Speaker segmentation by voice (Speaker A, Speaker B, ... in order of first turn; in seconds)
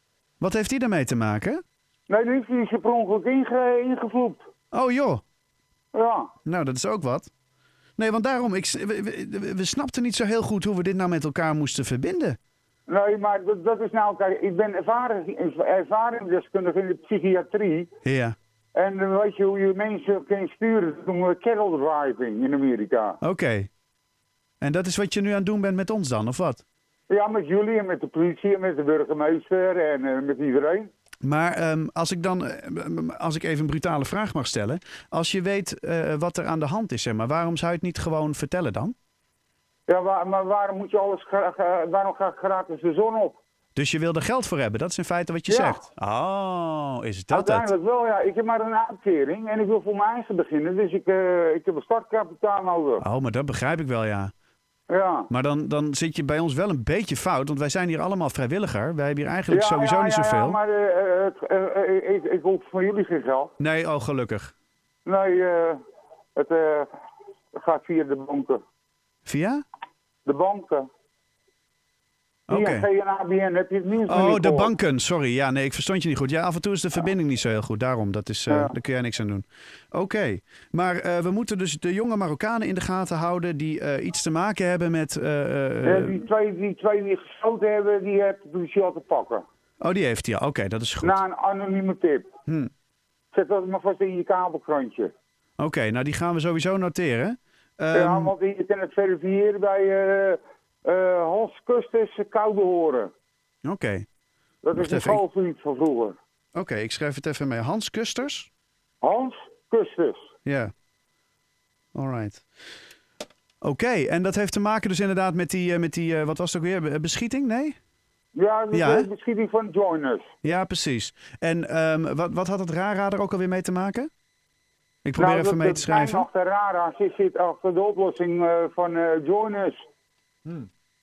Speaker A: 0.4-1.6, 4.7-5.2, 6.4-7.3, 8.0-12.4, 18.0-18.4, 23.2-23.7, 24.6-26.6, 31.2-38.9, 43.7-47.7, 53.0-54.3, 55.3-60.6, 63.6-64.5, 69.2-69.6, 72.5-72.9, 74.1-86.2, 89.8-91.2, 95.6-98.3, 103.6-104.0, 104.7-105.2, 106.5-108.5, 110.5-110.7, 111.9-112.4, 113.6-117.8, 118.7-119.1, 120.4-124.1, 125.0-126.3
Speaker B: 2.1-4.5, 5.9-6.3, 12.9-17.9, 18.7-23.2, 27.1-30.9, 39.9-43.4, 45.5-45.8, 47.3-53.0, 54.9-55.3, 59.5-63.5, 65.0-65.8, 66.3-66.9, 67.5-68.6, 70.2-70.9, 72.5-74.7, 78.5-78.7, 85.8-89.4, 91.0-92.3, 93.3-95.1, 97.9-103.1, 104.6-106.2, 109.0-110.3, 118.3-120.3, 125.2-129.8